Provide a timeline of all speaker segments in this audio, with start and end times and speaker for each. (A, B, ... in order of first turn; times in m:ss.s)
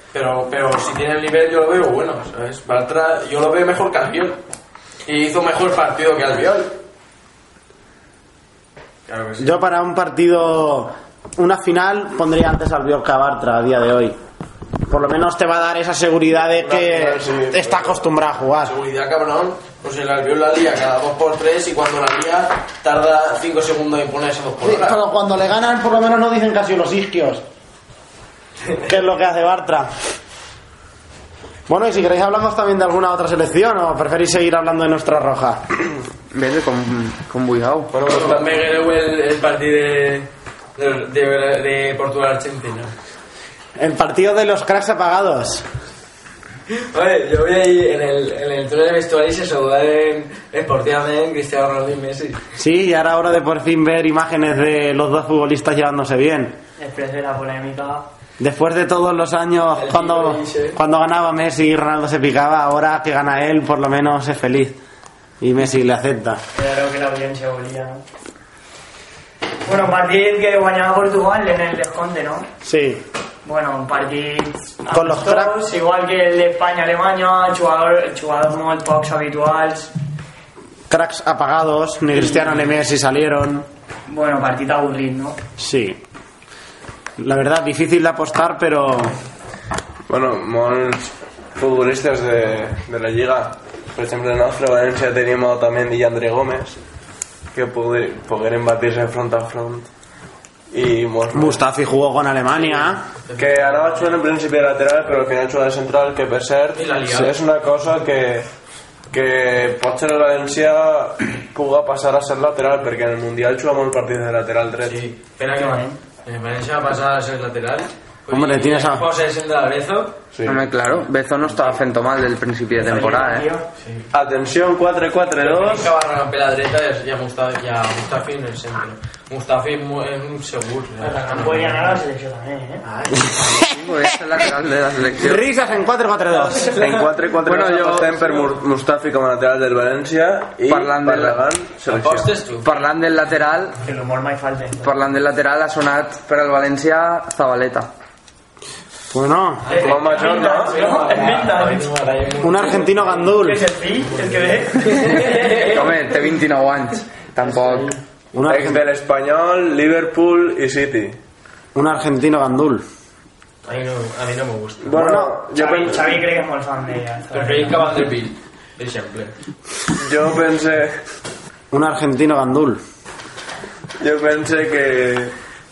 0:00.1-0:04.4 A
0:05.0-0:06.8 A
0:09.1-0:09.6 A
0:09.4-0:14.2 B
0:14.9-0:18.7 B
0:16.5-0:18.1 C
0:18.6-0:25.0 A
0:24.6-0:27.4 B
0:28.9-0:30.0 B
0:31.7-0:35.6 B
0:36.3-0:37.9 D
0:37.9-0:38.6 C
0:38.0-0:42.9 A
0:43.8-0:45.7 B
0:46.7-0:52.4 A
0:52.6-0:56.6 B
0:56.8-0:58.1 E
0:58.4-1:04.8 B
0:59.8-1:00.8 A
1:05.4-1:06.4 B
1:06.6-1:08.0 E
1:09.6-1:12.5 E
1:12.6-1:13.0 B
1:13.4-1:19.9 E
1:14.9-1:15.6 B
1:20.9-1:23.7 B
1:22.1-1:22.6 E
1:24.1-1:25.4 E
1:25.6-1:26.0 B
1:27.2-1:29.2 B
1:30.1-1:36.8 C
1:37.5-1:39.9 C
1:40.7-1:41.6 C
1:41.3-1:43.0 B
1:42.6-1:44.2 A
1:43.4-1:48.5 C
1:46.8-1:47.4 A
1:49.1-1:55.0 C
1:54.8-2:00.2 A
1:55.5-1:56.0 E
1:58.3-1:59.1 B
2:00.3-2:00.6 C
2:00.5-2:03.5 D
2:02.8-2:03.7 E
2:03.8-2:04.1 A
2:04.1-2:06.0 C
2:05.4-2:12.0 A
2:11.0-2:12.8 E
2:12.9-2:13.3 A
2:13.5-2:15.4 D
2:15.2-2:16.7 B
2:16.4-2:17.1 A
2:16.6-2:22.3 C
2:17.4-2:18.4 D
2:20.7-2:21.5 D
2:21.9-2:22.7 A
2:22.6-2:23.8 D
2:23.8-2:24.9 E
2:24.8-2:27.9 D
2:29.1-2:29.7 B
2:29.7-2:33.4 A
2:29.7-2:31.9 E
2:29.8-2:30.8 C
2:32.4-2:33.6 B
2:33.3-2:35.4 E
2:34.0-2:36.0 A
2:35.3-2:37.9 D
2:38.3-2:38.8 B
2:38.4-2:41.2 C
2:41.8-2:42.8 B
2:43.6-2:45.0 A
2:44.8-2:46.1 C
2:45.0-2:45.3 B
2:45.6-2:47.9 E
2:47.3-2:49.3 A
2:50.0-2:51.0 C
2:51.7-2:52.8 B
2:54.0-2:55.3 C